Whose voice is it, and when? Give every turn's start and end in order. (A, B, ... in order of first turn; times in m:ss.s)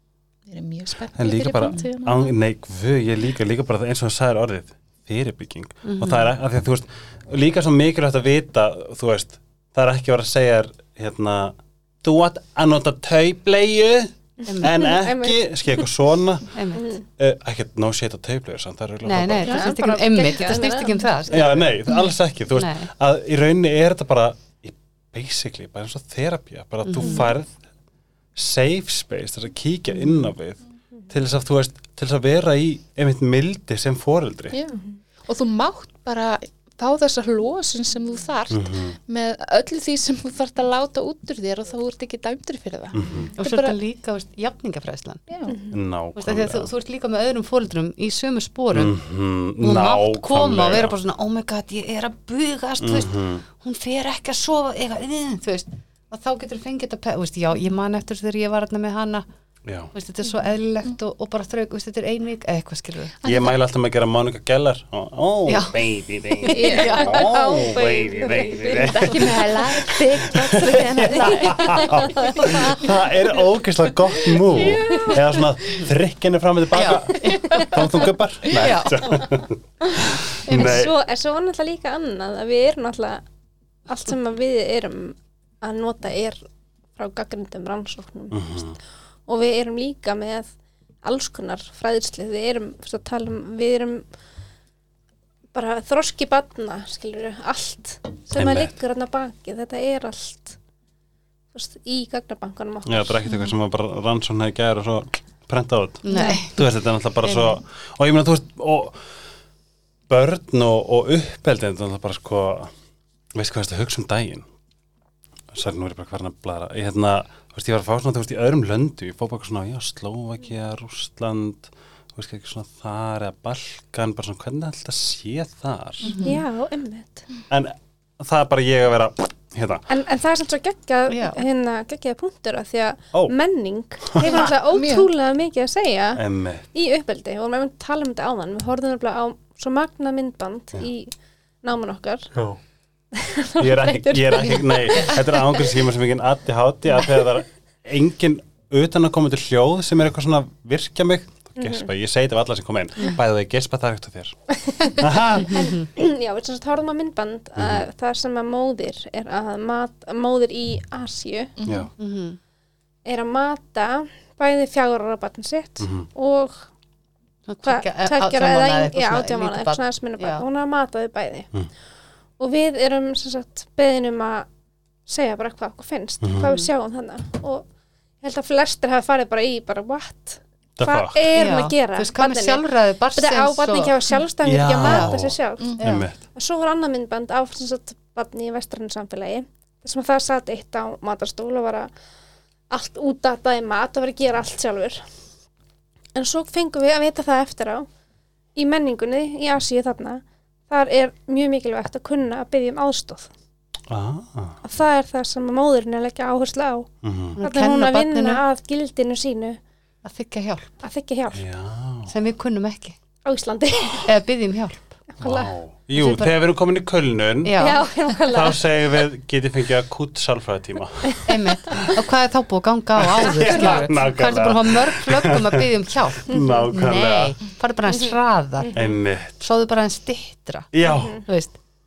0:00.4-0:02.3 A
0:01.1-0:16.6 B
0:05.8-0:06.3 C
0:14.4-0:14.9 C
0:14.6-0:15.8 D
0:16.5-0:17.0 C
0:16.8-0:17.0 D
0:17.2-0:19.7 B
0:19.0-0:22.0 C
0:19.4-0:21.0 D
0:21.3-0:27.5 B
0:22.6-0:22.9 C
0:26.8-0:27.3 C
0:28.4-0:34.6 B
0:34.5-0:43.8 A
0:38.5-0:39.0 B
0:42.9-0:43.3 B
0:43.4-0:45.2 C
0:45.3-0:45.6 A
0:45.5-0:45.8 D
0:45.7-0:46.7 B
0:46.2-0:48.9 C
0:48.7-0:50.9 B
0:49.6-0:59.3 C
0:52.8-0:53.4 B
0:59.6-0:59.9 B
0:59.9-1:03.1 C
1:03.2-1:03.6 A
1:03.2-1:20.9 B
1:05.5-1:05.8 C
1:06.4-1:07.3 C
1:06.5-1:09.2 D
1:08.7-1:12.4 A
1:11.1-1:12.9 D
1:14.5-1:15.2 D
1:14.5-1:15.8 C
1:16.7-1:19.2 C
1:17.2-1:17.7 D
1:20.4-1:20.8 C
1:20.5-1:23.2 D
1:23.9-1:26.4 D
1:27.0-1:28.6 D
1:28.3-1:28.8 B
1:29.3-1:34.1 D
1:35.5-1:40.6 D
1:38.4-1:38.7 B
1:41.5-1:43.4 D
1:42.8-1:49.0 B
1:46.0-1:46.6 C
1:46.1-1:46.4 D
1:50.1-1:52.7 B
1:53.4-1:54.4 B
1:55.5-2:06.1 B
2:06.0-2:06.4 C
2:06.2-2:07.2 D
2:07.5-2:09.8 B
2:09.9-2:16.2 D
2:11.1-2:11.4 C
2:14.2-2:14.5 B
2:14.3-2:15.1 A
2:16.2-2:16.6 B
2:16.7-2:21.1 D
2:21.6-2:22.3 D
2:22.3-2:22.6 B
2:23.2-2:25.6 D
2:23.6-2:34.4 B
2:31.6-2:31.8 D
2:34.6-2:41.6 D
2:34.9-2:35.6 B
2:35.5-2:35.8 C
2:37.6-2:37.8 B
2:41.6-2:41.9 A
2:41.6-2:41.9 B
2:42.0-2:42.4 C
2:43.0-2:46.7 D
2:45.8-2:46.1 B
2:47.5-2:50.4 C
2:47.6-2:51.5 D
2:52.4-2:54.5 D
2:55.1-2:57.7 D
2:56.2-2:56.5 B
2:56.4-2:56.7 C
2:58.2-3:11.9 D
3:00.8-3:01.3 B
3:01.4-3:04.2 C
3:04.4-3:06.2 B
3:04.8-3:05.1 C
3:05.8-3:06.1 C
3:12.7-3:15.0 D
3:16.1-3:17.9 D
3:18.6-3:23.3 D
3:23.9-3:24.6 B
3:24.6-3:26.9 D
3:27.0-3:27.4 B
3:27.4-3:28.4 C
3:27.4-3:29.6 D
3:30.0-3:30.8 C
3:30.8-3:31.4 D
3:31.3-3:32.1 B
3:32.1-3:33.0 C
3:33.2-3:34.2 D
3:34.0-3:35.0 C
3:35.1-3:35.5 D
3:35.2-3:37.6 B
3:36.0-3:36.4 C
3:37.4-3:37.9 C
3:37.6-3:38.6 D
3:38.3-3:42.0 B
3:41.3-3:48.8 C
3:43.0-3:45.6 B
3:43.4-3:43.9 D
3:46.2-3:47.4 B
3:46.3-3:46.6 D
3:47.9-3:48.9 D
3:48.7-3:49.4 B
3:49.4-3:50.7 C
3:50.7-3:51.2 B
3:50.8-3:51.2 D
3:51.2-3:51.6 C